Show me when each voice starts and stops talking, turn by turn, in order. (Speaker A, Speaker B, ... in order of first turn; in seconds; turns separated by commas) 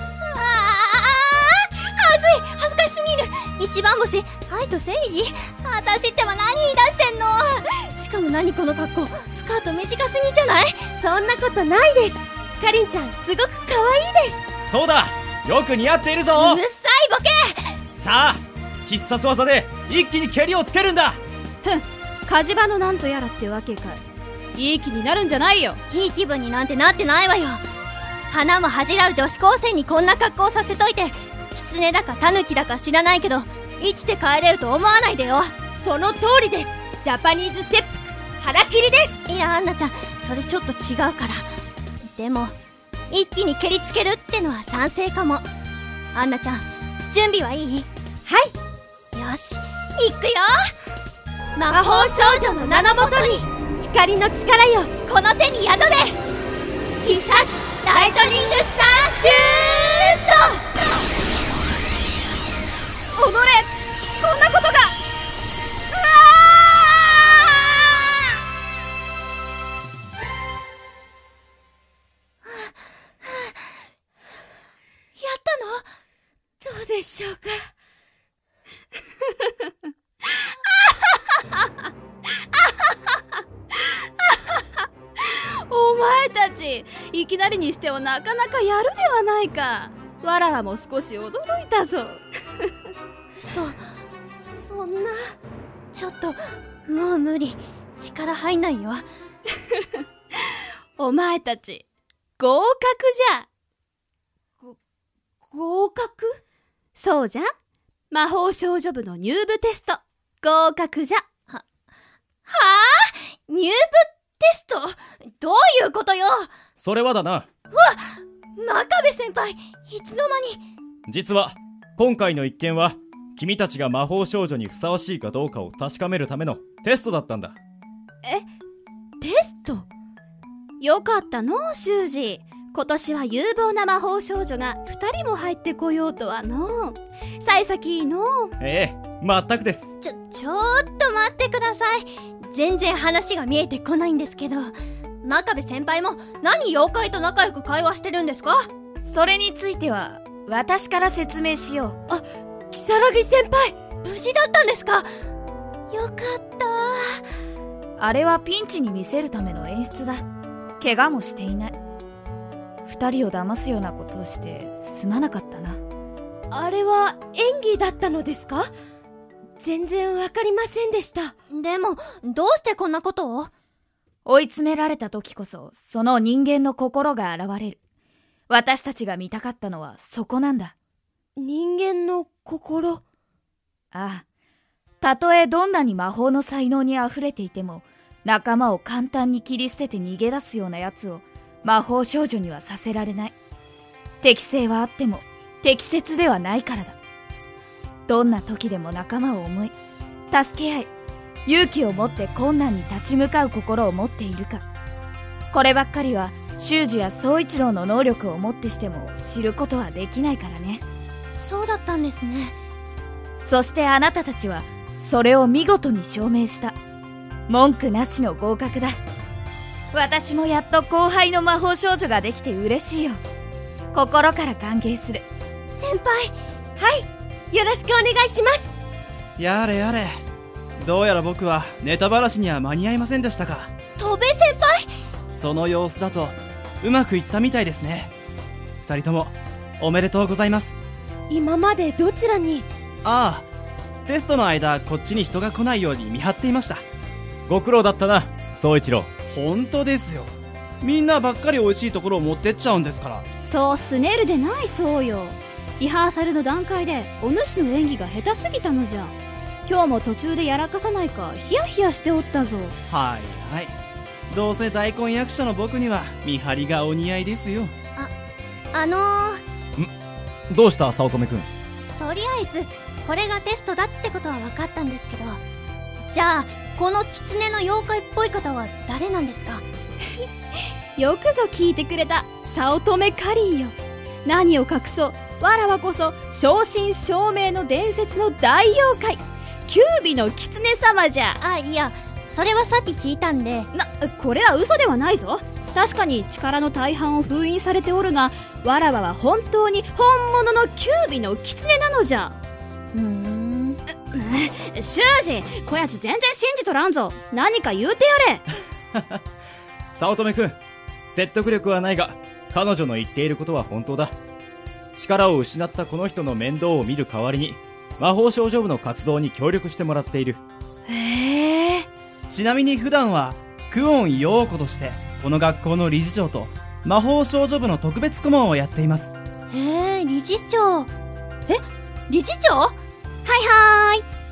Speaker A: 0.2-10.9, Speaker B: 11.0-14.5, Speaker C: 14.7-16.6, Speaker A: 16.3-17.8, Speaker C: 17.9-21.2, Speaker D: 21.6-24.0, Speaker D: 24.5-25.8, Speaker A: 25.9-27.6, Speaker A: 28.3-35.5, Speaker B: 35.7-39.2, Speaker A: 39.2-41.5, Speaker A: 42.1-42.5, Speaker A: 43.1-45.5, Speaker A: 46.1-47.9, Speaker B: 48.2-48.5, Speaker A: 49.1-50.7, Speaker A: 51.5-53.5, Speaker B: 51.7-54.9, Speaker A: 55.0-56.2, Speaker A: 57.0-60.6, Speaker B: 57.0-60.0, Speaker A: 63.2-63.6, Speaker A: 64.2-64.9, Speaker A: 65.9-67.9, Speaker A: 72.5-72.7, Speaker A: 73.3-73.5, Speaker A: 75.2-75.8, Speaker B: 76.6-77.7, Speaker D: 83.8-92.7, Speaker A: 93.4-93.8, Speaker B: 94.5-95.3, Speaker A: 95.9-99.1, Speaker D: 101.0-101.8, Speaker D: 102.4-103.5, Speaker B: 105.4-106.4, Speaker D: 107.0-107.5, Speaker D: 108.1-111.2, Speaker A: 112.5-116.5, Speaker C: 116.8-117.5, Speaker A: 117.7-120.6, Speaker C: 121.1-127.5, Speaker B: 129.2-129.8, Speaker D: 130.8-138.5, Speaker C: 138.6-139.9, Speaker A: 140.0-148.7, Speaker E: 149.1-152.0, Speaker B: 152.1-153.8, Speaker A: 154.0-155.1, Speaker A: 155.9-157.2, Speaker E: 158.0-160.2, Speaker E: 160.8-161.8, Speaker E: 162.8-165.8, Speaker B: 166.5-168.7, Speaker B: 169.6-171.3, Speaker A: 171.5-173.5, Speaker E: 174.2-177.8, Speaker E: 178.5-180.7, Speaker B: 181.3-183.0, Speaker E: 183.9-184.2, Speaker E: 185.0-193.3, Speaker E: 194.2-196.9, Speaker E: 198.1-199.7, Speaker E: 200.3-200.9, Speaker E: 201.4-204.6, Speaker E: 205.5-210.8, Speaker A: 211.3-212.6, Speaker E: 213.4-216.8, Speaker E: 217.5-219.0, Speaker E: 219.9-223.2, Speaker E: 223.9-225.2, Speaker A: 225.8-226.3, Speaker B: 226.8-228.7, Speaker F: 229.4-230.2, Speaker F: 230.8-233.7, Speaker A: 234.0-234.9, Speaker F: 235.3-238.1, Speaker F: 238.8-240.8, Speaker B: 241.3-242.7, Speaker F: 243.0-243.5, Speaker F: 244.1-246.8, Speaker C: 247.5-249.1, Speaker F: 249.3-253.2, Speaker D: 253.4-259.1, Speaker D: 259.6-262.8, Speaker F: 262.9-263.7, Speaker F: 264.3-267.7, Speaker A: 268.7-269.4, Speaker C: 270.5-271.5, Speaker A: 272.0-275.4, Speaker A: 276.1-279.6, Speaker D: 280.9-291.4, Speaker A: 291.4-293.7, Speaker D: 293.7-302.4, Speaker A: 302.9-303.8, Speaker D: 304.1-308.4, Speaker C: 309.9-310.6, Speaker C: 311.1-314.1, Speaker C: 314.9-320.4, Speaker B: 320.9-321.7, Speaker F: 322.3-329.1, Speaker A: 329.5-330.9, Speaker A: 332.1-332.7, Speaker A: 333.2-334.0